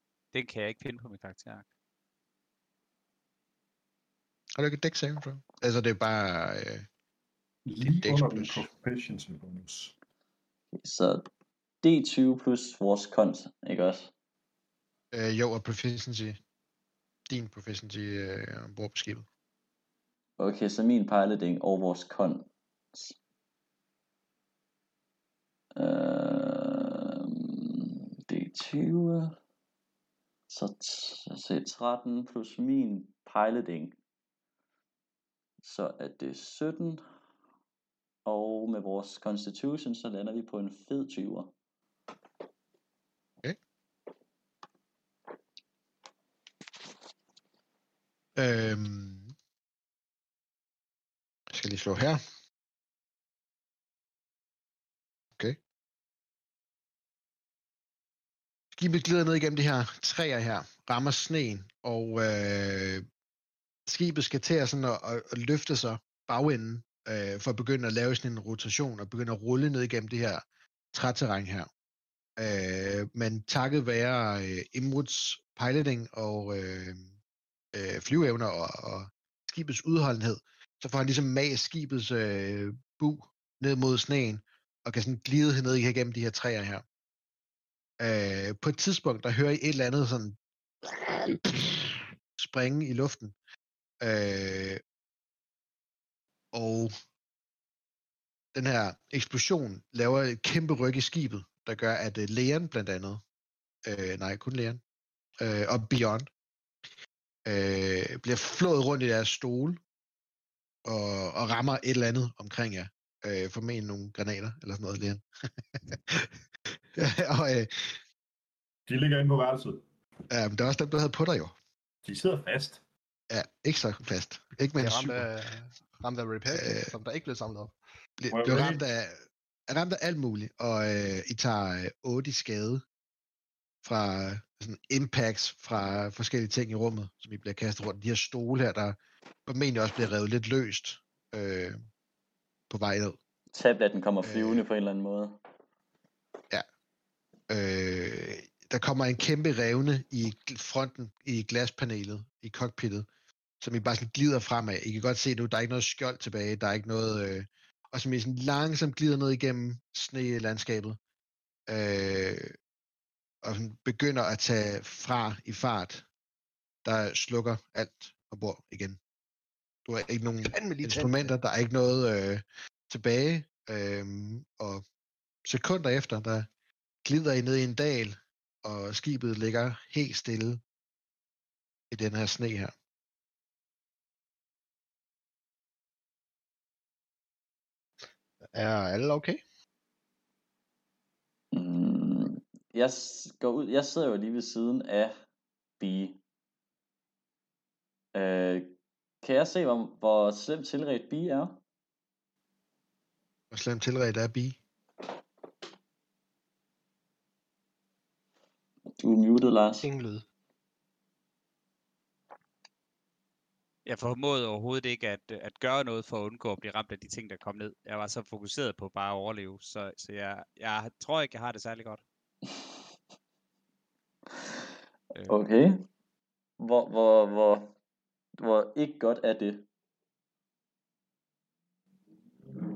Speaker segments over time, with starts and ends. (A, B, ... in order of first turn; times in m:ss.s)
0:00.3-0:01.7 A
0:04.6-0:06.9 B
0:07.7-0:09.9 C
0:07.8-0:08.7 B
0:10.8-0:11.2 D
0:11.8-0:14.1 D
0:15.1-0:16.4 B
0:17.3-0:19.2 B
0:20.4-0:23.2 D
0:25.8-0:29.4 D
0:30.5-0:34.0 D
0:35.6-0:37.0 D
0:38.3-0:41.5 D
0:48.4-0:49.3 B
0:51.5-0:52.2 B
0:58.7-1:03.0 B
1:03.9-1:11.7 B
1:12.4-1:17.1 B
1:17.7-1:26.8 B
1:28.0-1:33.4 B
1:34.0-1:34.8 B
1:36.5-1:37.0 B
1:38.5-1:43.2 B
1:43.8-1:44.8 B
1:45.4-1:46.3 B
1:47.5-1:49.8 B
1:50.8-1:56.4 B
1:56.9-1:58.0 B
1:58.9-1:59.8 C
2:00.3-2:01.5 B
2:02.0-2:02.8 C
2:03.3-2:05.3 B
2:04.8-2:07.8 E
2:06.5-2:06.9 B
2:08.2-2:12.8 B
2:08.3-2:08.8 C
2:13.8-2:21.8 B
2:22.7-2:23.2 B
2:23.5-2:25.4 D
2:24.2-2:24.6 B
2:27.5-2:33.1 B
2:33.6-2:41.0 B
2:41.7-2:42.6 B
2:43.4-2:46.0 B
2:46.8-2:49.0 B
2:49.9-2:54.8 B
2:50.5-2:51.3 E
2:55.4-2:56.5 B
2:57.0-3:00.6 B
3:01.9-3:02.7 B
3:08.5-3:09.4 E
3:11.5-3:15.2 D
3:15.8-3:16.2 D
3:18.1-3:21.6 D
3:23.5-3:24.6 B
3:29.0-3:29.9 D
3:29.8-3:30.2 E
3:33.8-3:42.0 A
3:45.3-3:45.8 D
3:46.6-3:47.7 D
3:48.4-3:49.7 D